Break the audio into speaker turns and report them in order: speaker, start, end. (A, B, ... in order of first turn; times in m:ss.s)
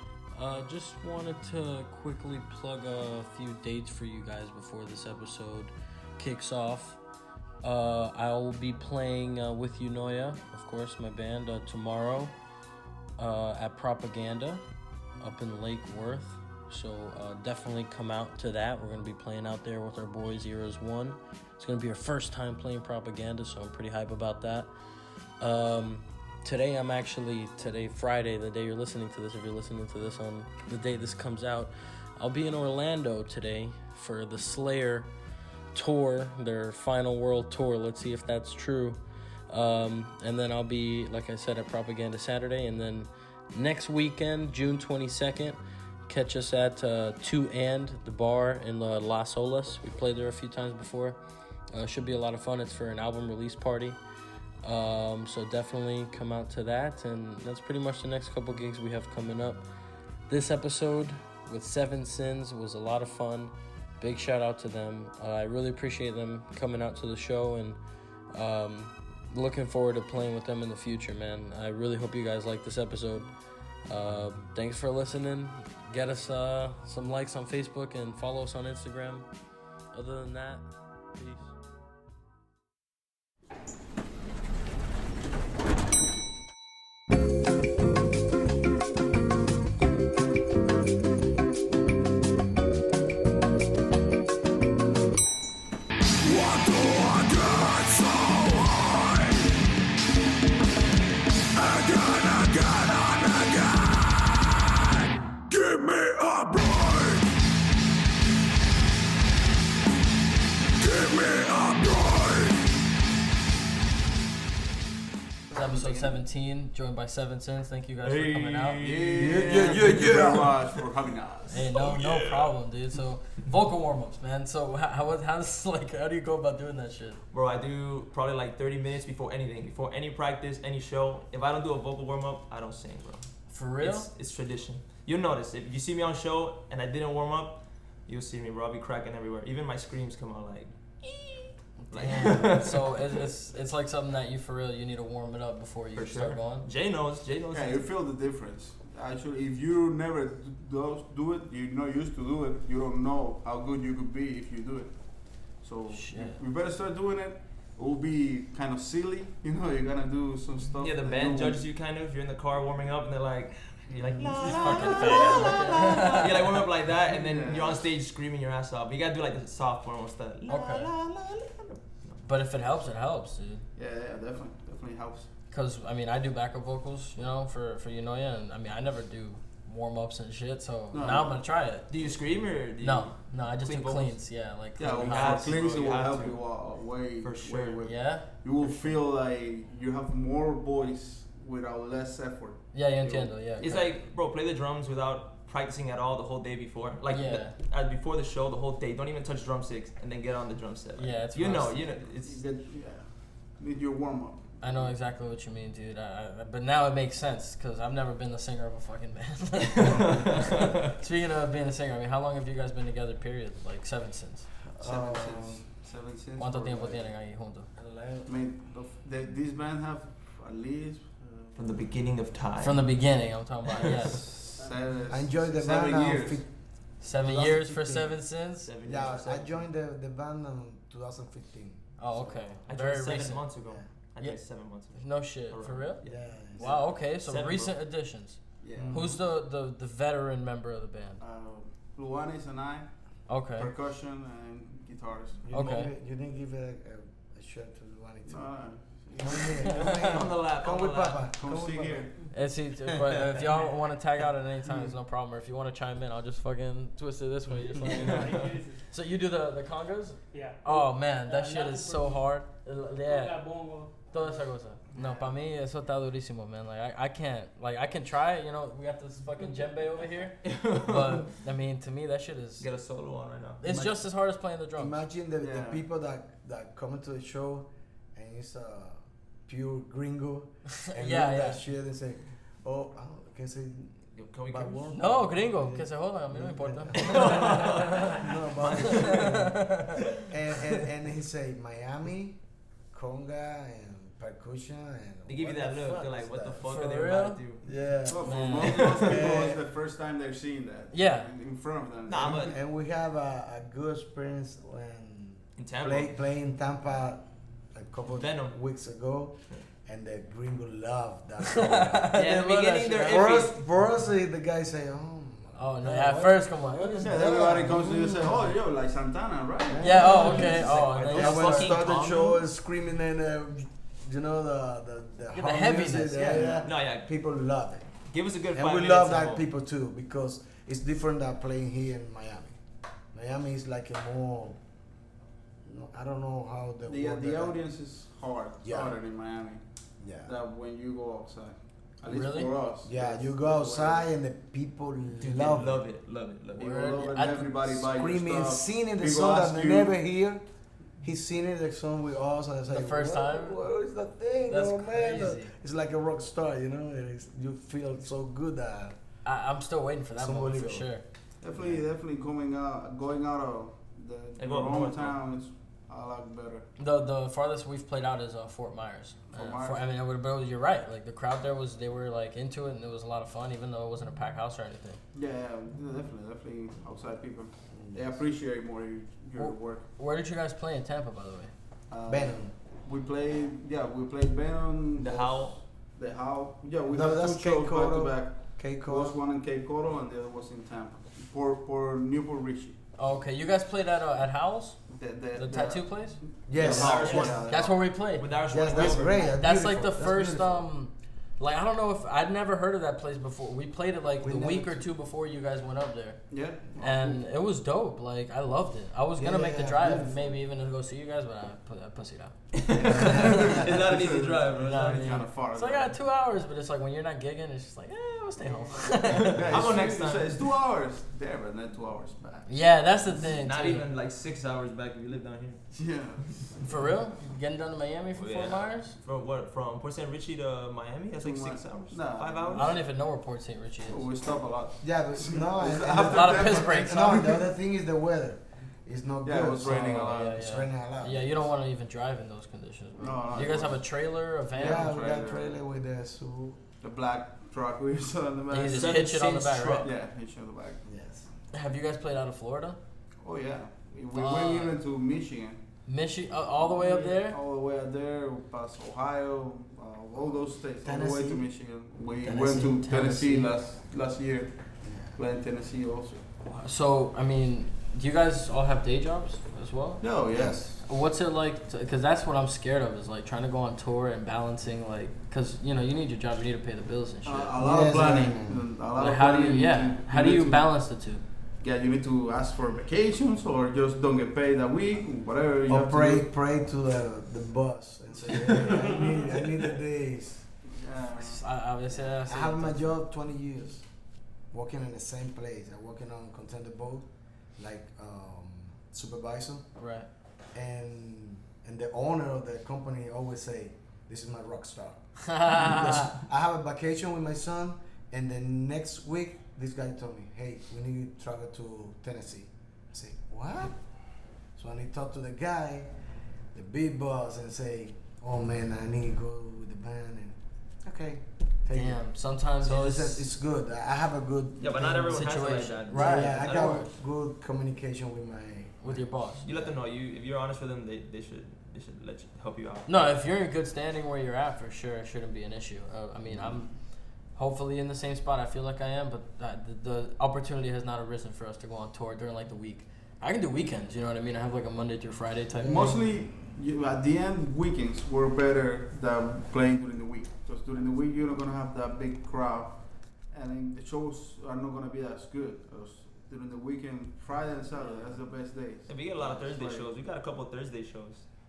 0:00.3-0:07.0 A
0:07.6-0:12.3 A
0:13.2-0:14.6 A
0:15.2-0:24.7 A
0:25.4-0:35.1 A
0:35.7-0:51.2 A
0:51.7-0:54.0 A
0:54.6-0:59.6 A
1:00.3-1:07.8 A
1:08.3-1:13.3 A
1:13.9-1:19.3 A
1:19.9-1:21.5 A
1:36.2-1:39.5 B
1:41.5-1:44.7 B
1:45.3-1:47.3 B
1:50.8-1:52.7 B
1:55.5-1:56.2 C
1:55.5-1:59.8 A
1:58.1-2:01.7 D
1:59.1-2:00.6 C
2:01.5-2:07.2 A
2:01.7-2:02.5 B
2:07.3-2:23.1 E
2:13.5-2:14.1 A
2:22.0-2:26.7 A
2:26.0-2:27.8 E
2:27.5-2:34.9 D
2:35.6-2:41.6 D
2:35.9-2:36.4 A
2:40.8-2:52.2 E
2:43.9-2:45.4 D
2:44.4-2:46.5 A
2:47.0-2:47.9 D
2:50.5-2:50.9 A
2:52.2-2:53.6 A
2:53.8-2:55.3 D
2:55.5-3:01.8 A
3:00.9-3:01.4 D
3:01.9-3:04.2 E
3:02.8-3:05.7 A
3:04.8-3:13.3 D
3:04.9-3:06.4 E
3:07.2-3:07.9 E
3:07.8-3:08.3 A
3:08.6-3:09.0 E
3:12.7-3:13.9 A
3:13.6-3:22.4 E
3:17.1-3:17.5 A
3:21.0-3:21.8 A
3:22.2-3:23.0 D
3:23.6-3:24.9 D
3:24.6-3:34.5 A
3:29.7-3:30.9 E
3:34.7-3:35.6 C
3:34.8-3:37.1 D
3:36.4-3:37.7 A
3:37.8-3:38.4 C
3:38.3-3:41.8 D
3:41.5-3:42.8 E
3:42.6-3:44.4 A
3:44.6-3:46.4 D
3:44.6-3:44.8 F
3:45.1-3:46.5 C
3:47.0-3:48.7 A
3:47.1-3:48.2 C
3:48.6-3:49.6 E
3:48.8-3:52.6 C
3:52.0-3:53.5 A
3:52.7-3:56.2 E
3:54.9-3:56.0 A
3:56.0-3:56.7 C
3:56.5-3:56.9 D
3:56.6-4:01.2 A
3:57.0-3:57.7 E
3:58.6-3:59.0 D
3:58.7-3:59.2 C
4:01.2-4:02.9 D
4:03.3-4:03.7 A
4:03.6-4:05.5 D
4:05.4-4:08.5 C
4:05.5-4:05.9 A
4:08.3-4:09.7 D
4:09.2-4:12.1 C
4:09.6-4:11.3 E
4:09.7-4:10.1 A
4:11.4-4:12.1 D
4:12.3-4:23.4 A
4:12.9-4:13.2 C
4:17.8-4:18.8 F
4:18.1-4:18.4 E
4:20.3-4:22.3 F
4:23.0-4:24.4 F
4:24.1-4:32.7 A
4:30.4-4:31.4 E
4:32.6-4:33.6 E
4:33.6-4:35.0 A
4:34.8-4:56.7 C
4:35.4-4:35.8 D
4:40.8-4:41.6 A
4:44.2-4:45.0 E
4:44.9-4:48.3 A
4:47.0-4:50.7 E
4:48.8-4:50.0 A
4:55.3-4:57.6 E
4:56.6-4:57.4 A
4:57.6-4:59.6 C
4:58.1-5:02.6 D
4:58.2-4:59.0 A
4:58.6-4:59.2 E
5:00.9-5:01.3 A
5:02.1-5:02.6 E
5:02.5-5:18.6 C
5:05.6-5:06.1 E
5:08.1-5:08.6 E
5:11.5-5:13.2 A
5:12.1-5:13.6 E
5:15.6-5:17.3 A
5:17.0-5:20.0 D
5:19.6-5:27.9 C
5:19.8-5:21.8 A
5:20.0-5:22.4 E
5:25.3-5:26.4 A
5:26.2-5:26.6 D
5:26.6-5:27.1 E
5:28.1-5:29.4 E
5:28.5-5:32.6 C
5:33.1-5:34.6 C
5:35.6-5:37.6 C
5:36.9-5:39.6 D
5:38.6-5:39.0 C
5:40.0-5:40.3 C
5:40.2-5:44.1 D
5:42.1-5:42.5 A
5:42.8-5:45.8 C
5:45.2-5:46.9 E
5:46.6-5:49.9 D
5:46.6-5:47.5 A
5:47.7-5:50.4 C
5:51.0-5:59.0 C
5:52.7-5:53.6 A
5:54.5-5:55.5 A
5:59.2-6:01.0 A
6:00.2-6:00.9 C
6:01.4-6:06.7 D
6:01.5-6:01.8 C
6:04.4-6:05.2 E
6:06.8-6:15.0 A
6:09.3-6:09.8 D
6:15.1-6:19.8 D
6:17.7-6:18.2 C
6:19.4-6:21.5 A
6:21.9-6:32.8 D
6:22.1-6:22.5 C
6:25.0-6:25.5 E
6:26.9-6:29.2 C
6:33.0-6:34.8 A
6:34.9-6:37.8 D
6:35.3-6:46.2 A
6:36.5-6:37.4 C
6:36.5-6:39.3 E
6:38.5-6:40.7 C
6:44.2-6:44.9 C
6:46.3-6:47.2 D
6:46.8-6:52.3 A
6:49.2-6:50.4 C
6:52.5-6:55.2 E
6:52.8-6:53.7 C
6:52.9-6:56.0 D
6:52.9-6:53.3 A
6:54.6-6:59.5 A
6:59.0-7:02.6 D
6:59.1-7:00.5 E
7:02.5-7:03.8 A
7:03.4-7:05.6 E
7:05.7-7:06.6 D
7:06.6-7:09.0 A
7:08.1-7:12.8 E
7:11.2-7:12.8 D
7:12.5-7:14.0 A
7:13.9-7:17.4 D
7:14.8-7:21.4 C
7:16.0-7:17.4 A
7:19.2-7:20.4 D
7:19.6-7:25.0 A
7:23.0-7:23.8 D
7:24.5-7:25.6 D
7:24.6-7:26.6 C
7:26.8-7:29.0 D
7:28.5-7:29.9 A
7:28.7-7:29.9 E
7:29.8-7:30.8 D
7:30.8-7:31.3 C
7:31.5-7:32.8 A
7:33.2-7:35.6 D
7:34.1-7:34.8 A
7:35.8-7:37.4 A
7:36.6-7:44.5 D
7:40.8-7:41.5 C
7:42.2-7:43.5 A
7:44.8-7:45.2 C
7:45.2-7:46.2 D
7:46.5-7:50.0 A
7:50.0-7:50.7 D
7:50.3-7:50.6 C
7:50.7-7:57.6 A
7:57.2-8:00.7 D
7:57.6-7:58.6 C
7:59.0-8:01.2 A
8:01.6-8:06.2 D
8:05.7-8:10.5 C
8:08.2-8:08.8 D
8:10.7-8:11.4 D
8:11.2-8:13.0 A
8:12.0-8:13.9 C
8:14.5-8:19.7 C
8:19.8-8:20.1 A
8:20.5-8:33.8 C
8:25.2-8:26.1 A
8:34.6-8:35.9 C
8:36.5-8:42.0 C
8:41.7-8:43.3 A
8:42.6-8:45.3 C
8:44.6-8:46.8 E
8:45.0-8:46.9 A
8:45.9-8:49.7 C
8:48.8-8:49.4 A
8:49.4-8:52.9 E
8:52.8-8:56.7 A
8:57.4-9:06.0 A
9:05.6-9:12.8 D
9:13.3-9:19.9 D
9:18.9-9:21.2 E